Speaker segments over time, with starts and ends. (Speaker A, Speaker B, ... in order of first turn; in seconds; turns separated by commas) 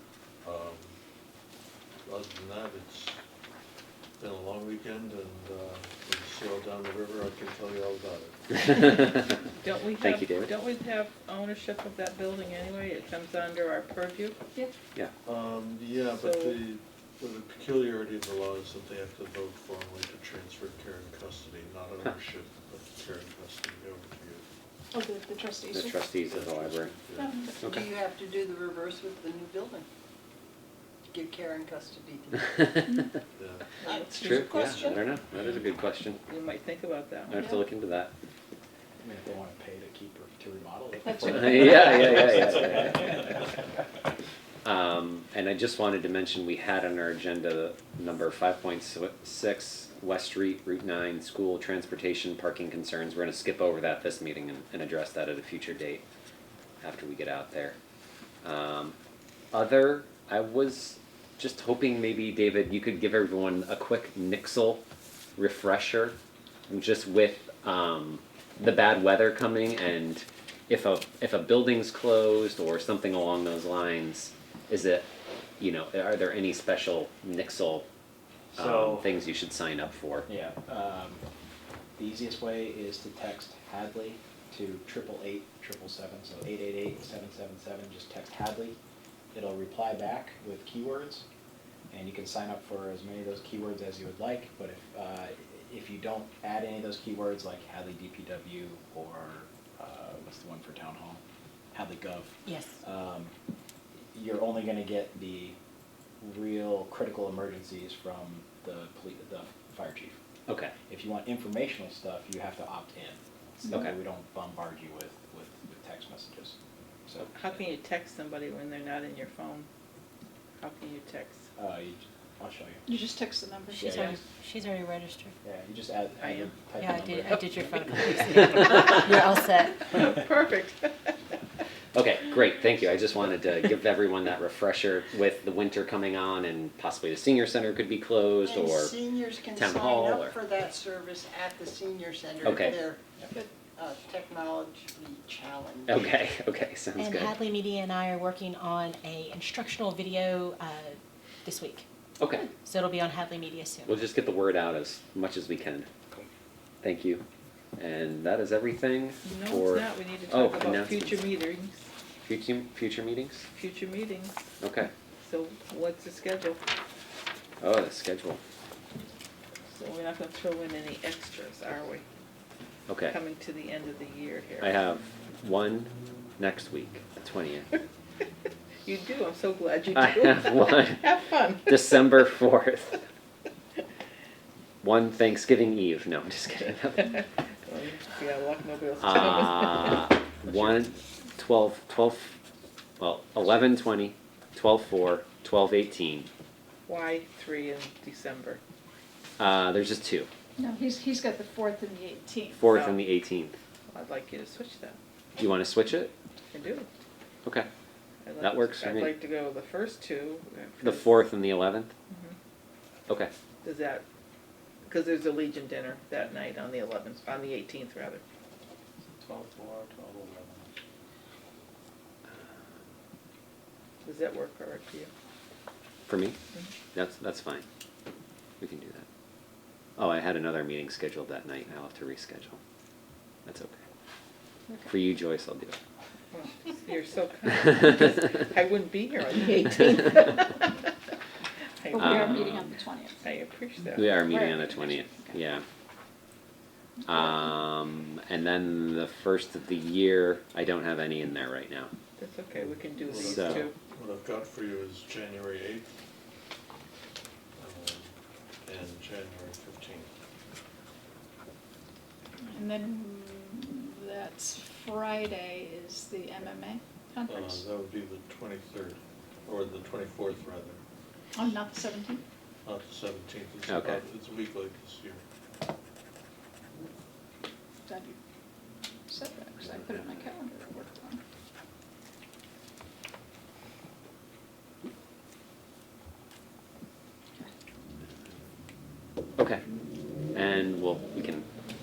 Speaker A: 0.4-0.9, Speaker A: 2.0-3.2, Speaker A: 4.2-8.4, Speaker B: 9.6-14.4, Speaker C: 10.0-10.5, Speaker A: 15.3-24.4, Speaker B: 16.1-16.6, Speaker D: 24.9-26.1, Speaker C: 25.7-26.9, Speaker A: 26.3-27.3, Speaker D: 27.2-27.6, Speaker C: 27.6-27.9, Speaker E: 27.6-29.9, Speaker E: 31.1-32.8, Speaker C: 32.7-33.0, Speaker A: 33.4-33.8, Speaker B: 33.8-34.1, Speaker E: 33.8-35.0, Speaker C: 34.1-36.2, Speaker A: 34.3-34.7, Speaker B: 36.3-37.4, Speaker C: 37.3-38.1, Speaker F: 39.0-43.5, Speaker D: 41.1-42.1, Speaker C: 41.2-43.3, Speaker C: 44.6-56.0, Speaker C: 56.8-57.8, Speaker C: 58.4-59.0, Speaker C: 59.5-64.8, Speaker C: 65.4-66.2, Speaker C: 66.7-75.1, Speaker C: 75.6-77.9, Speaker F: 78.5-79.1, Speaker C: 78.5-80.3, Speaker F: 80.3-81.2, Speaker F: 82.0-88.8, Speaker F: 89.3-91.2, Speaker F: 91.9-101.2, Speaker F: 101.7-103.3, Speaker G: 102.5-102.7, Speaker F: 104.1-105.6, Speaker F: 106.2-110.2, Speaker C: 110.5-110.7, Speaker F: 110.9-116.6, Speaker B: 117.3-119.7, Speaker B: 120.6-121.5, Speaker F: 121.6-122.9, Speaker D: 122.9-123.9, Speaker G: 123.7-125.3, Speaker F: 123.8-124.2, Speaker F: 125.4-128.5, Speaker B: 126.2-126.5, Speaker G: 126.8-129.8, Speaker B: 129.8-131.1, Speaker C: 131.9-139.0, Speaker E: 138.4-143.0, Speaker C: 139.5-140.4, Speaker C: 142.4-142.8, Speaker E: 143.6-146.1, Speaker C: 145.9-147.4, Speaker G: 147.0-151.8, Speaker C: 152.2-152.5, Speaker G: 152.5-154.0, Speaker C: 153.9-155.9, Speaker C: 156.8-157.2, Speaker C: 157.8-161.3, Speaker B: 159.2-161.9, Speaker C: 162.2-163.5, Speaker B: 163.5-164.4, Speaker C: 164.6-164.9, Speaker B: 165.2-166.6, Speaker C: 167.6-168.4, Speaker B: 169.7-172.1, Speaker C: 172.9-173.2, Speaker B: 173.0-174.9, Speaker C: 174.6-177.7, Speaker B: 178.8-182.3, Speaker C: 179.9-183.0, Speaker C: 184.8-187.2, Speaker B: 187.0-190.8, Speaker C: 189.0-192.3, Speaker C: 193.0-196.3, Speaker B: 196.9-198.6, Speaker C: 199.4-200.3, Speaker D: 200.6-202.7, Speaker C: 202.5-203.6, Speaker B: 202.7-203.1, Speaker B: 203.9-205.0, Speaker C: 205.4-206.1, Speaker B: 206.5-206.9, Speaker B: 208.2-211.3, Speaker C: 208.4-209.2, Speaker C: 210.8-211.9, Speaker B: 212.1-212.4, Speaker B: 213.6-214.1, Speaker B: 214.8-218.2, Speaker F: 219.4-220.3, Speaker B: 224.0-225.1, Speaker C: 226.1-226.4, Speaker C: 226.9-227.7, Speaker C: 228.6-229.1, Speaker C: 230.0-232.6, Speaker C: 233.5-233.8, Speaker C: 234.8-235.8, Speaker B: 236.3-240.2, Speaker D: 239.3-240.6, Speaker D: 241.9-243.2, Speaker C: 242.0-242.8, Speaker A: 242.1-242.4, Speaker B: 243.2-244.1, Speaker C: 244.0-245.6, Speaker D: 244.1-245.4, Speaker D: 247.0-247.3, Speaker C: 247.1-251.9, Speaker B: 252.2-253.8, Speaker A: 252.5-255.9, Speaker C: 253.1-253.6, Speaker A: 257.6-258.1, Speaker A: 258.7-260.1, Speaker D: 262.5-267.7, Speaker A: 267.3-270.8, Speaker D: 271.3-272.2, Speaker A: 272.6-275.2, Speaker C: 273.7-274.0, Speaker D: 277.9-278.2, Speaker D: 279.1-281.2, Speaker C: 289.4-289.6, Speaker C: 290.3-291.4